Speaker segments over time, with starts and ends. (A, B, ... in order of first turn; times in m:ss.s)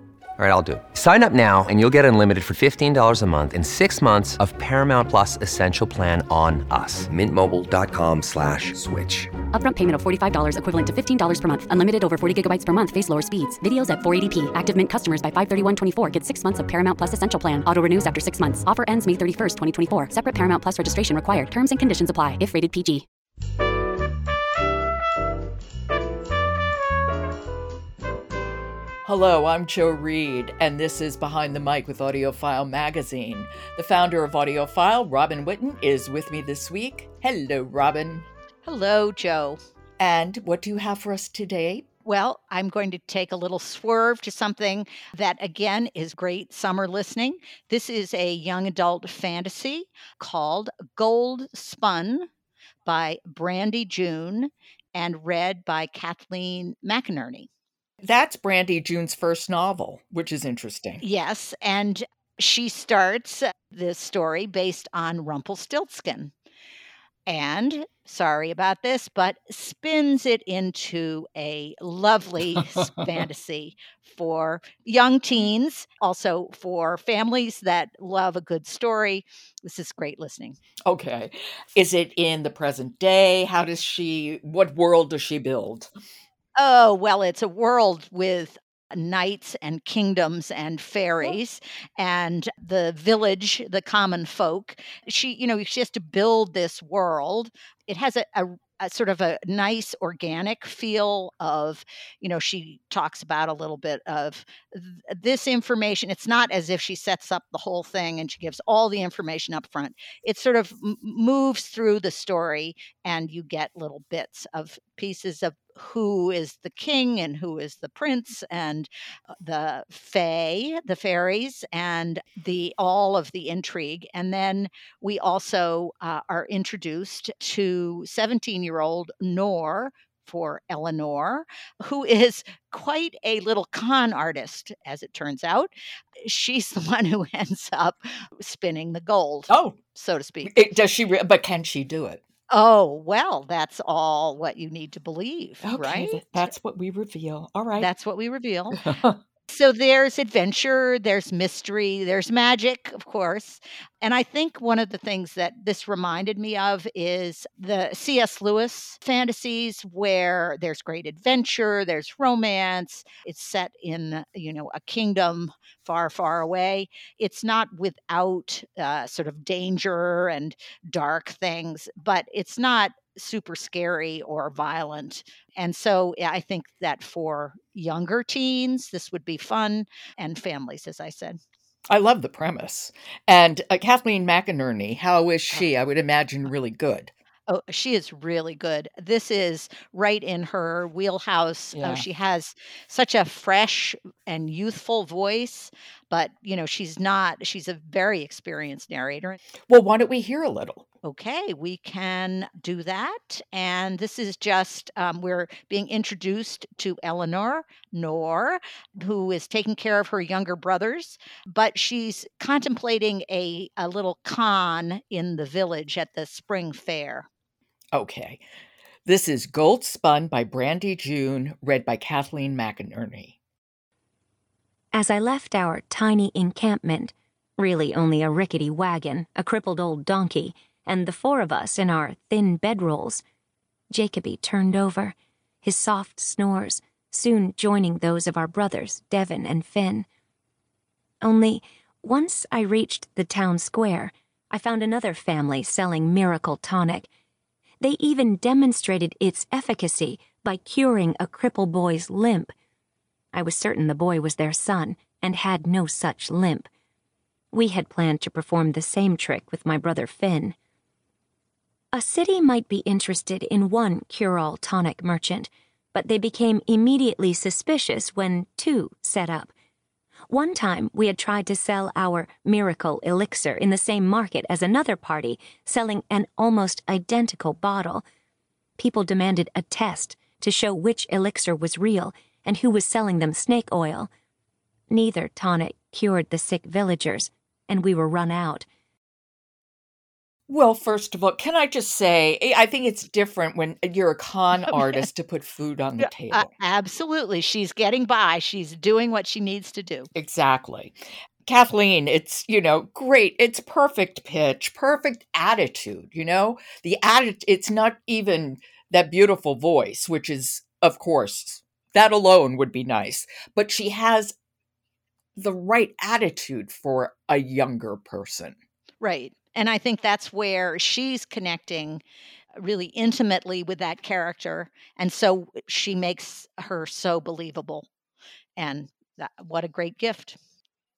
0:00.4-0:09.3 A
0:09.5-0:23.0 B
0:29.0-0:38.3 C
0:38.6-0:39.6 D
0:40.0-0:41.9 C
0:42.1-0:52.3 D
0:52.9-0:57.5 D
0:58.0-1:01.0 C
1:01.0-1:06.3 D
1:07.3-1:20.6 D
1:20.9-1:25.9 C
1:26.6-1:58.9 D
1:59.4-2:15.7 D
2:16.2-2:20.5 D
2:19.5-2:19.8 C
2:20.4-2:22.2 C
2:22.5-2:26.5 D
2:25.6-2:27.9 C
2:27.8-2:28.8 D
2:28.7-2:29.2 C
2:29.5-3:01.4 D
3:01.9-3:07.1 C
3:07.5-3:19.4 D
3:11.8-3:12.0 C
3:19.7-3:20.8 C
3:21.0-3:37.3 D
3:37.9-3:38.4 C
3:39.0-3:43.4 C
3:44.9-3:53.2 E
3:53.9-4:00.1 E
4:01.2-4:07.1 E
4:07.8-4:12.5 E
4:13.3-4:16.7 E
4:17.5-4:20.6 E
4:21.9-4:29.5 E
4:30.3-4:38.0 E
4:38.8-4:44.1 E
4:44.9-4:48.7 E
4:50.5-4:56.5 C
4:56.0-5:00.1 D
5:00.2-5:14.4 C
5:15.4-5:18.6 C
5:19.0-5:22.0 D
5:22.6-5:27.9 D
5:28.6-5:30.4 D